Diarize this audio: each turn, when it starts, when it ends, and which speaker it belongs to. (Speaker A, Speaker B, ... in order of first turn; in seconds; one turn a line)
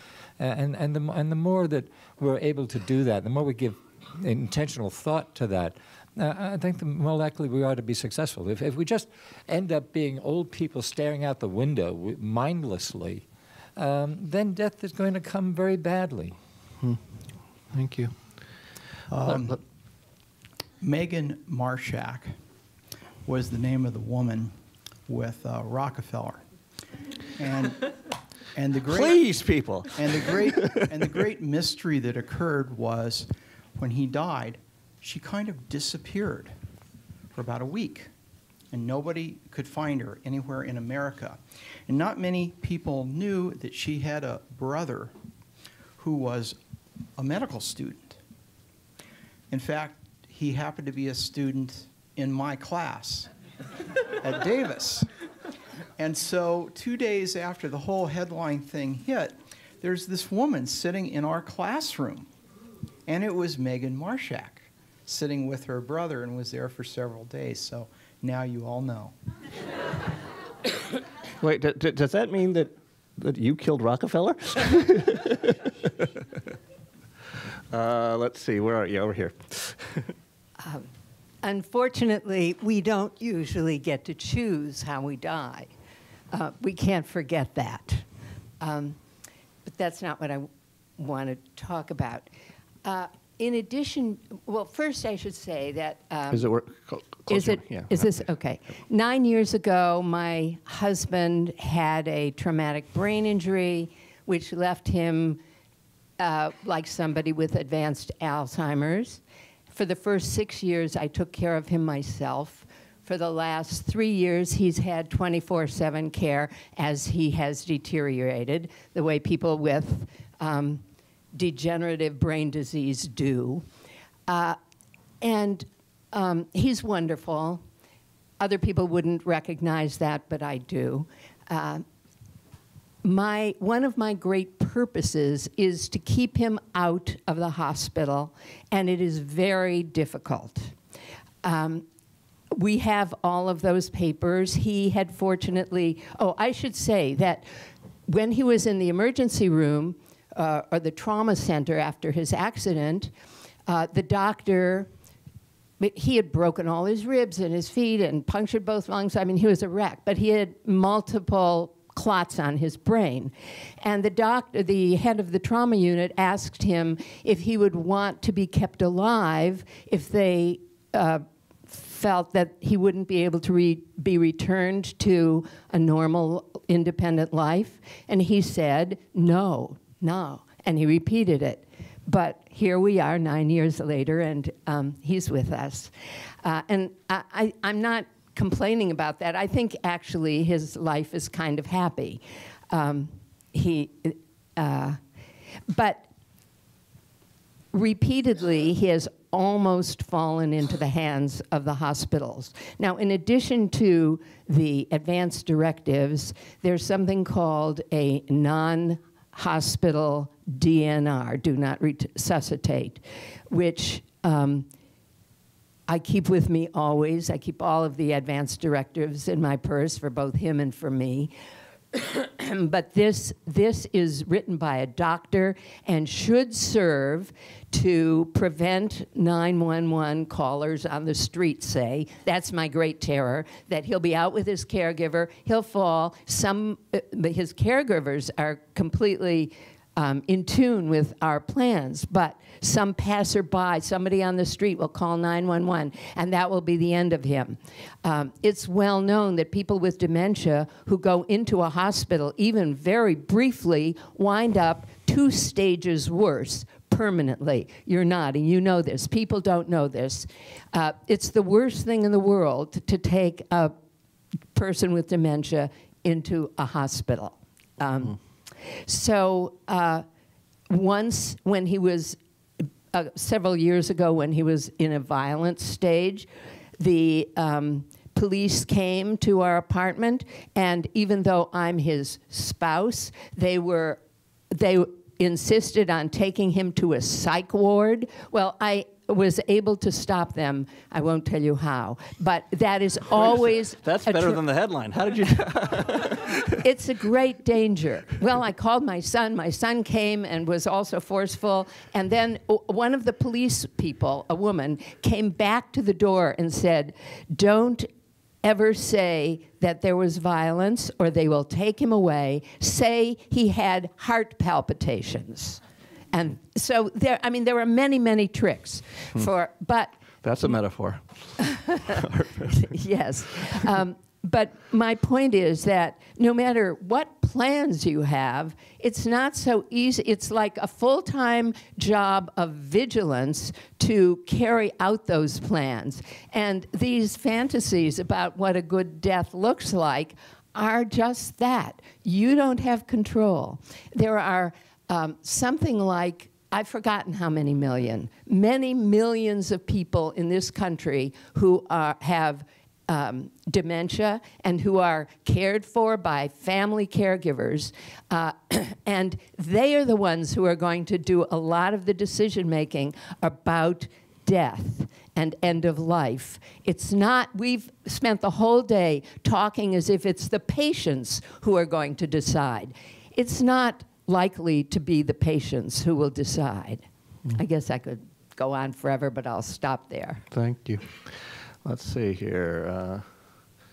Speaker A: 0.4-16.4
Speaker B: 17.7-18.2
Speaker C: 19.1-19.6
Speaker B: 19.2-19.6
Speaker C: 20.8-22.4
Speaker C: 23.3-24.6
Speaker C: 25.1-26.4
Speaker C: 27.4-27.8
Speaker C: 28.6-29.2
Speaker B: 28.9-30.8
Speaker C: 29.9-36.5
Speaker C: 37.4-38.1
Speaker C: 38.7-45.1
Speaker C: 46.0-46.6
Speaker C: 47.2-48.2
Speaker C: 49.5-53.3
Speaker C: 54.2-55.1
Speaker C: 56.0-62.3
Speaker C: 63.1-69.1
Speaker B: 71.4-76.1
Speaker B: 77.7-80.1
Speaker D: 81.4-85.7
Speaker D: 86.3-88.1
Speaker D: 88.6-89.0
Speaker D: 89.7-92.3
Speaker D: 92.8-96.5
Speaker B: 96.3-98.3
Speaker D: 97.3-105.4
Speaker D: 106.2-120.8
Speaker D: 121.3-123.7
Speaker D: 124.3-124.6
Speaker D: 125.2-127.6
Speaker D: 128.4-131.8
Speaker D: 133.0-140.8
Speaker D: 141.4-141.9
Speaker D: 142.5-147.5
Speaker D: 148.1-153.1
Speaker D: 153.7-154.9
Speaker D: 155.8-195.0
Speaker D: 195.7-196.1
Speaker D: 197.7-214.7
Speaker D: 215.9-221.3
Speaker D: 221.9-263.8
Speaker D: 264.5-270.1
Speaker D: 270.7-272.2
Speaker D: 272.9-284.0
Speaker D: 284.5-294.4
Speaker B: 293.2-296.5
Speaker D: 296.6-307.9
Speaker D: 308.4-315.6
Speaker D: 316.1-319.9
Speaker B: 320.2-322.7
Speaker D: 322.6-380.2
Speaker B: 380.3-383.2